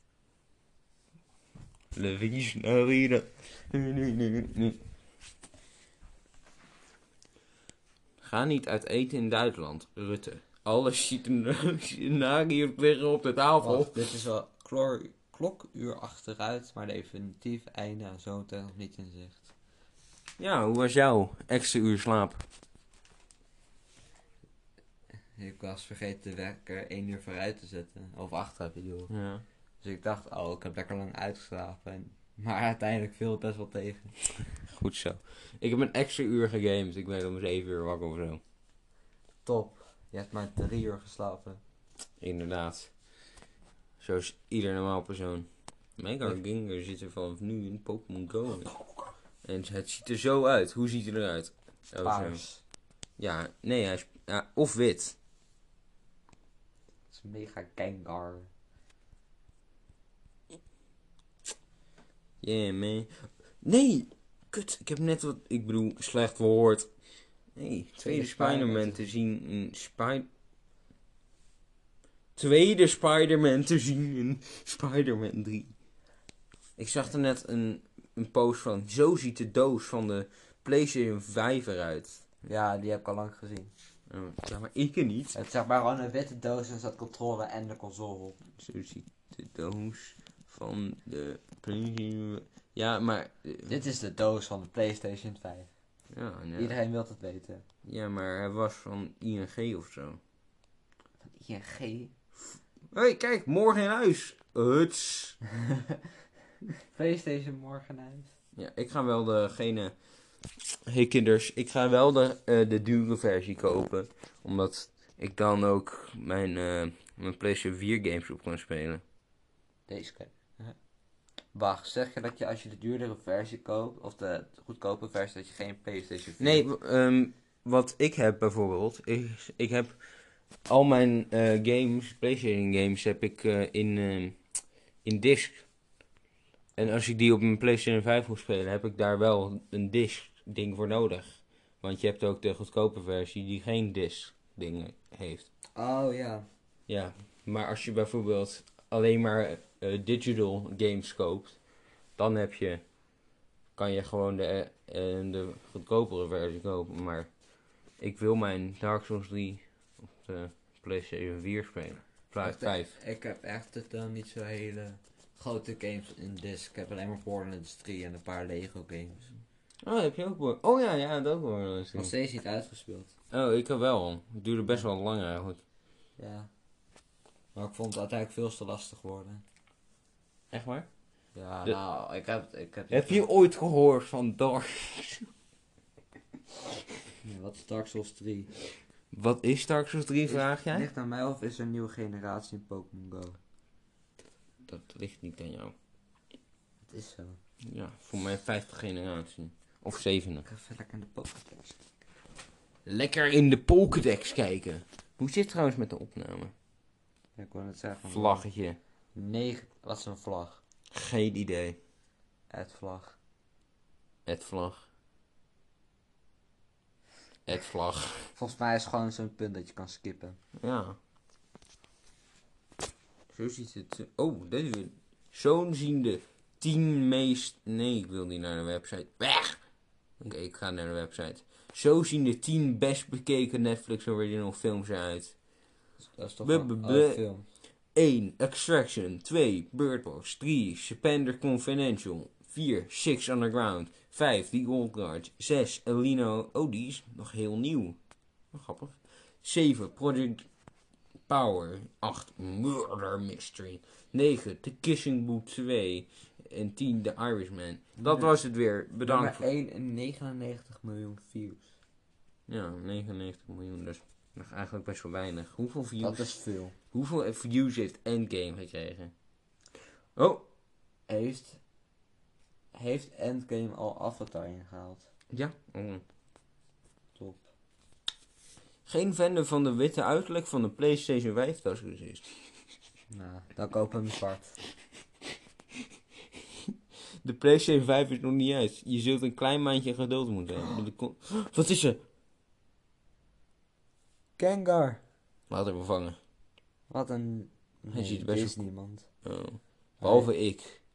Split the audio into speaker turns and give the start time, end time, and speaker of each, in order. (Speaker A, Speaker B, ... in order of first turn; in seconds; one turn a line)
Speaker A: 1.9-4.8
Speaker A: 8.2-14.0
Speaker B: 13.6-19.5
Speaker A: 20.4-22.4
Speaker B: 25.4-29.1
Speaker A: 29.1-29.4
Speaker B: 29.8-34.1
Speaker A: 34.7-38.4
Speaker B: 39.4-41.6
Speaker A: 42.2-42.9
Speaker A: 44.0-48.7
Speaker A: 49.4-52.4
Speaker B: 52.0-52.6
Speaker A: 53.2-55.2
Speaker B: 57.1-58.5
Speaker A: 62.4-66.9
Speaker A: 67.5-70.3
Speaker B: 68.0-69.1
Speaker A: 72.3-75.7
Speaker A: 76.8-82.2
Speaker B: 82.4-83.7
Speaker A: 84.1-85.4
Speaker B: 85.3-88.4
Speaker A: 88.6-93.8
Speaker B: 93.7-95.7
Speaker A: 96.1-96.8
Speaker B: 96.6-97.6
Speaker A: 97.8-100.2
Speaker B: 101.2-102.1
Speaker A: 102.4-105.4
Speaker B: 105.6-106.0
Speaker B: 106.8-108.3
Speaker A: 108.5-109.9
Speaker A: 110.9-119.0
Speaker B: 119.9-120.7
Speaker B: 121.5-126.6
Speaker A: 126.4-130.0
Speaker A: 130.7-134.4
Speaker A: 135.0-135.7
Speaker A: 136.8-145.5
Speaker B: 145.7-146.4
Speaker A: 146.9-151.6
Speaker A: 152.2-152.8
Speaker A: 153.8-157.3
Speaker A: 158.0-159.6
Speaker A: 160.2-162.9
Speaker B: 162.4-169.3
Speaker A: 169.8-172.1
Speaker B: 171.9-173.1
Speaker A: 173.3-175.6
Speaker B: 176.2-176.5
Speaker B: 177.5-179.4
Speaker A: 180.5-180.9
Speaker B: 181.3-183.2
Speaker A: 182.9-185.3
Speaker B: 187.2-188.5
Speaker A: 189.1-190.9
Speaker B: 190.2-193.4
Speaker A: 194.6-195.7
Speaker B: 196.8-197.4
Speaker A: 197.7-200.4
Speaker B: 200.4-201.8
Speaker A: 202.8-206.5
Speaker B: 207.3-208.4
Speaker A: 208.1-208.8
Speaker B: 209.1-210.6
Speaker A: 210.9-211.8
Speaker B: 212.5-213.2
Speaker A: 214.2-214.8
Speaker A: 217.4-218.3
Speaker B: 218.3-220.4
Speaker A: 220.6-221.0
Speaker A: 223.3-229.6
Speaker A: 230.2-235.3
Speaker B: 236.1-237.4
Speaker A: 236.4-237.2
Speaker A: 237.9-248.0
Speaker A: 248.5-250.4
Speaker A: 251.3-259.4
Speaker B: 258.0-258.3
Speaker B: 259.0-261.7
Speaker A: 262.5-266.3
Speaker B: 266.0-266.7
Speaker A: 266.9-269.1
Speaker A: 270.1-270.4
Speaker B: 271.1-271.6
Speaker B: 272.7-275.1
Speaker A: 275.3-276.0
Speaker B: 277.1-277.5
Speaker A: 278.9-282.3
Speaker B: 283.1-284.6
Speaker A: 287.2-292.0
Speaker B: 294.4-295.0
Speaker A: 295.5-296.2
Speaker B: 296.9-299.1
Speaker A: 297.9-298.6
Speaker A: 299.2-300.8
Speaker B: 300.0-300.3